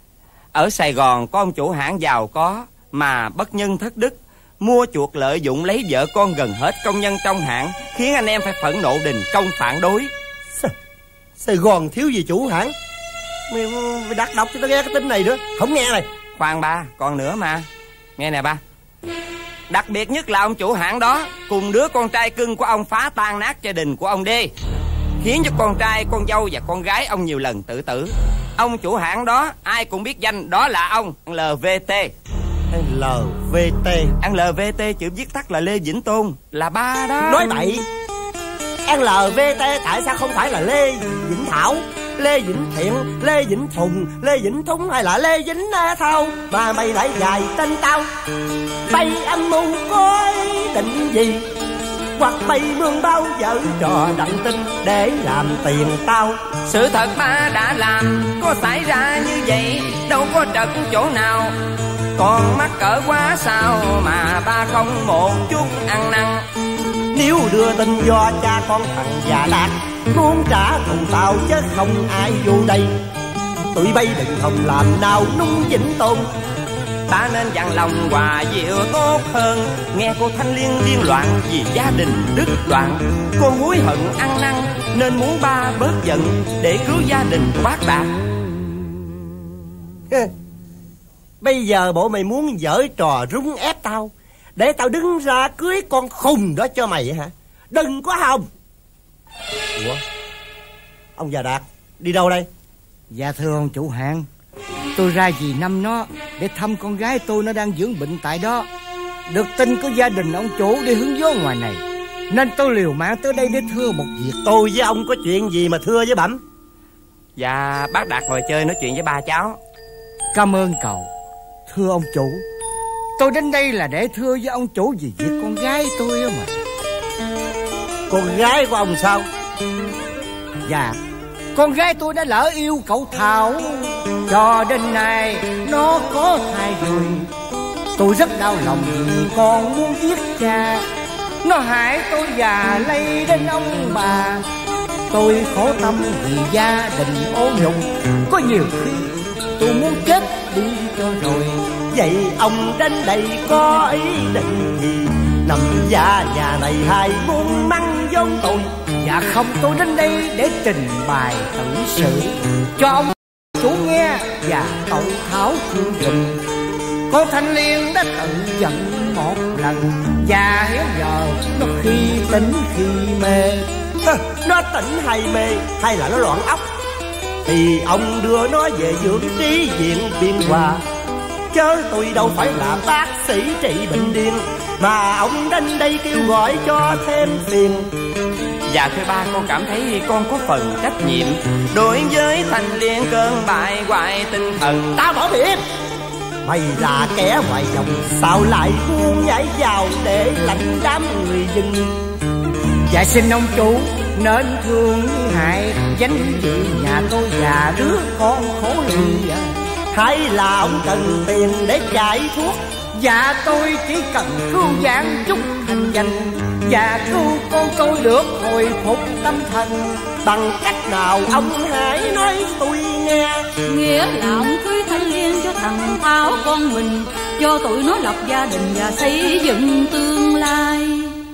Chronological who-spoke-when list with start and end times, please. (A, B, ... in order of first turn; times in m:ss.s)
0:00.5-0:10.1 A
0:11.4-0:12.7 B
0:13.5-0:16.1 B
0:16.4-0:17.6 A
0:18.2-0:18.6 A
0:19.7-0:24.5 A
0:25.2-0:32.1 A
0:32.7-0:34.1 B
0:34.2-0:37.6 A
0:37.3-0:37.8 B
0:38.8-0:48.1 B
0:48.9-0:51.5 B
0:52.2-0:56.4 B
0:56.6-1:01.5 A
1:02.2-1:06.4 A
1:07.1-1:12.9 B
1:13.7-1:16.3 B
1:17.1-1:28.1 A
1:31.4-1:38.5 B
1:39.8-1:40.0 B
1:41.2-1:42.5 B
1:43.1-1:44.3 C
1:45.0-1:48.7 C
1:49.3-1:54.4 C
1:54.4-1:56.4 B
1:57.4-1:59.6 A
2:00.3-2:01.1 C
2:01.7-2:02.4 C
2:03.2-2:06.5 C
2:08.1-2:09.3 B
2:10.6-2:11.0 C
2:11.5-2:17.3 C
2:17.9-2:20.8 C
2:21.4-2:24.4 C
2:25.1-2:31.7 C
2:31.9-2:38.8 B
2:39.0-2:46.4 C
2:47.1-2:53.7 C
2:54.0-2:56.7 B
2:57.4-3:00.8 B
3:01.5-3:07.9 B
3:08.7-3:15.0 A
3:15.0-3:15.6 B
3:16.4-3:22.0 B
3:22.9-3:29.5 C
3:29.9-3:32.6 B
3:32.9-3:40.0 C
3:40.2-3:43.4 B
3:43.6-3:51.1 D